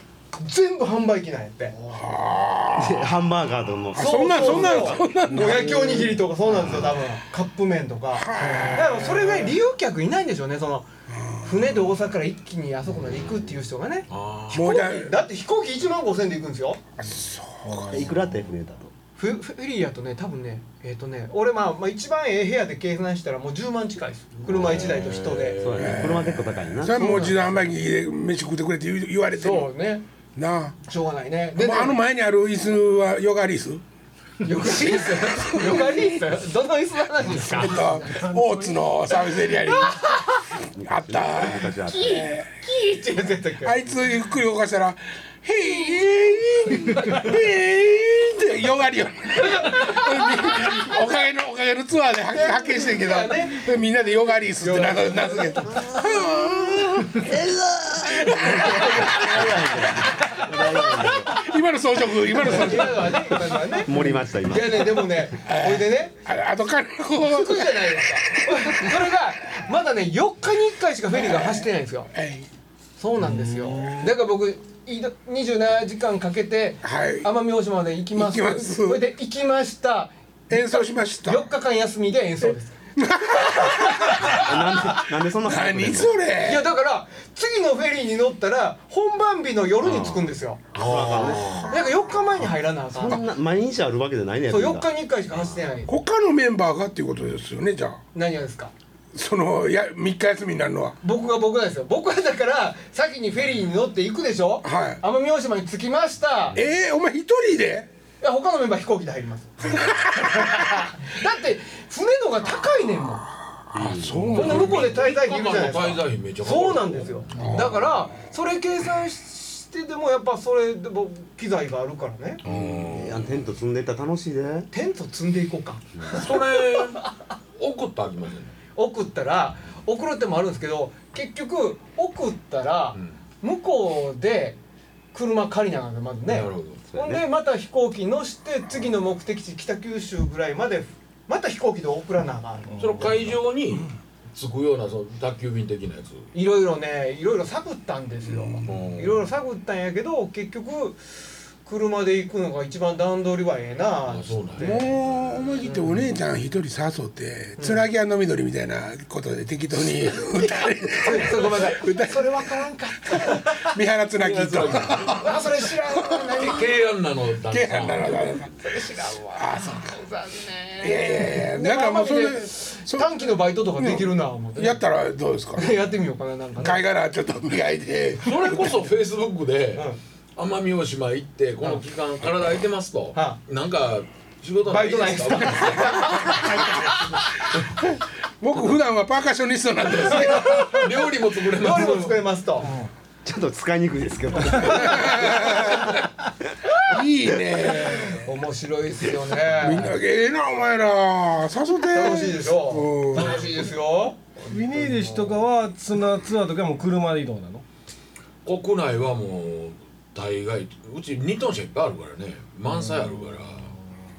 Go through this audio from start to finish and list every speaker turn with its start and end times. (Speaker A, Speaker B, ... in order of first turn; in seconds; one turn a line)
Speaker A: 0.3-1.8
Speaker B: 1.9-3.1
Speaker C: 2.7-5.0
Speaker B: 3.9-5.9
Speaker A: 4.0-10.9
Speaker D: 5.5-6.2
Speaker B: 8.2-9.1
Speaker D: 8.4-9.0
Speaker B: 11.1-11.7
Speaker A: 11.4-16.8
Speaker E: 14.1-14.7
Speaker B: 14.5-15.1
Speaker B: 17.0-18.1
Speaker D: 17.6-18.2
Speaker C: 17.9-18.9
Speaker A: 19.2-25.6
Speaker E: 24.4-26.3
Speaker C: 25.6-27.3
Speaker B: 25.8-29.7
Speaker A: 27.0-27.5
Speaker A: 29.3-30.0
Speaker B: 30.4-30.8
Speaker A: 30.9-32.0
Speaker B: 31.6-33.8
Speaker A: 34.4-38.1
Speaker B: 35.2-36.0
Speaker B: 37.5-40.0
Speaker D: 37.7-38.9
Speaker A: 39.6-40.4
Speaker C: 40.8-42.3
Speaker B: 40.9-42.5
Speaker A: 41.9-43.9
Speaker B: 43.6-57.3
Speaker A: 49.4-50.9
Speaker A: 52.3-53.7
Speaker A: 54.6-55.9
Speaker C: 57.0-61.4
Speaker B: 58.3-59.6
Speaker A: 60.4-61.1
Speaker B: 61.1-63.5
Speaker A: 62.3-66.1
Speaker C: 63.7-65.1
Speaker B: 65.4-69.0
Speaker A: 67.2-72.1
Speaker B: 71.1-72.5
Speaker A: 73.0-82.8
Speaker D: 73.2-74.2
Speaker B: 76.8-77.3
Speaker B: 78.1-79.0
Speaker B: 80.5-81.5
Speaker B: 83.0-84.5
Speaker A: 83.3-84.7
Speaker C: 84.2-86.2
Speaker B: 85.0-86.7
Speaker A: 86.4-93.2
Speaker C: 89.8-91.7
Speaker E: 90.7-91.7
Speaker B: 91.4-92.0
Speaker C: 92.9-95.6
Speaker A: 94.5-96.0
Speaker B: 95.9-98.0
Speaker A: 98.1-98.7
Speaker B: 99.1-101.0
Speaker A: 101.0-106.6
Speaker B: 104.6-105.0
Speaker B: 106.5-107.9
Speaker A: 108.2-113.3
Speaker B: 109.7-110.8
Speaker B: 113.6-114.9
Speaker C: 113.7-114.5
Speaker E: 114.3-117.7
Speaker A: 114.3-122.4
Speaker B: 117.3-118.1
Speaker E: 122.4-123.4
Speaker C: 122.5-124.7
Speaker A: 124.7-127.0
Speaker E: 126.1-128.6
Speaker A: 128.7-134.6
Speaker A: 135.1-142.7
Speaker E: 136.2-136.8
Speaker C: 136.8-137.2
Speaker D: 142.7-143.9
Speaker E: 142.8-146.3
Speaker A: 146.3-151.0
Speaker B: 148.3-148.6
Speaker E: 148.6-149.3
Speaker A: 151.6-154.9
Speaker E: 154.1-155.5
Speaker B: 154.6-162.6
Speaker A: 155.6-156.1
Speaker A: 157.6-157.8
Speaker A: 161.0-163.7
Speaker B: 163.1-166.6
Speaker C: 164.2-165.1
Speaker E: 164.6-165.0
Speaker A: 165.1-166.9
Speaker E: 166.4-168.3
Speaker B: 167.5-168.6
Speaker A: 168.6-174.8
Speaker B: 169.3-170.0
Speaker B: 170.8-175.7
Speaker A: 175.6-176.8
Speaker B: 176.6-178.8
Speaker E: 178.2-186.4
Speaker A: 184.7-187.0
Speaker B: 185.6-186.8
Speaker B: 187.6-190.9
Speaker A: 190.2-190.4
Speaker E: 190.4-192.2
Speaker A: 191.5-192.7
Speaker D: 192.6-192.9
Speaker C: 193.2-195.8
Speaker A: 194.7-195.6
Speaker B: 194.7-195.9
Speaker B: 196.9-198.2
Speaker C: 197.3-197.9
Speaker A: 197.8-200.0
Speaker B: 199.5-203.5
Speaker A: 201.9-205.3
Speaker D: 204.5-207.6
Speaker E: 208.4-213.7
Speaker D: 212.7-213.8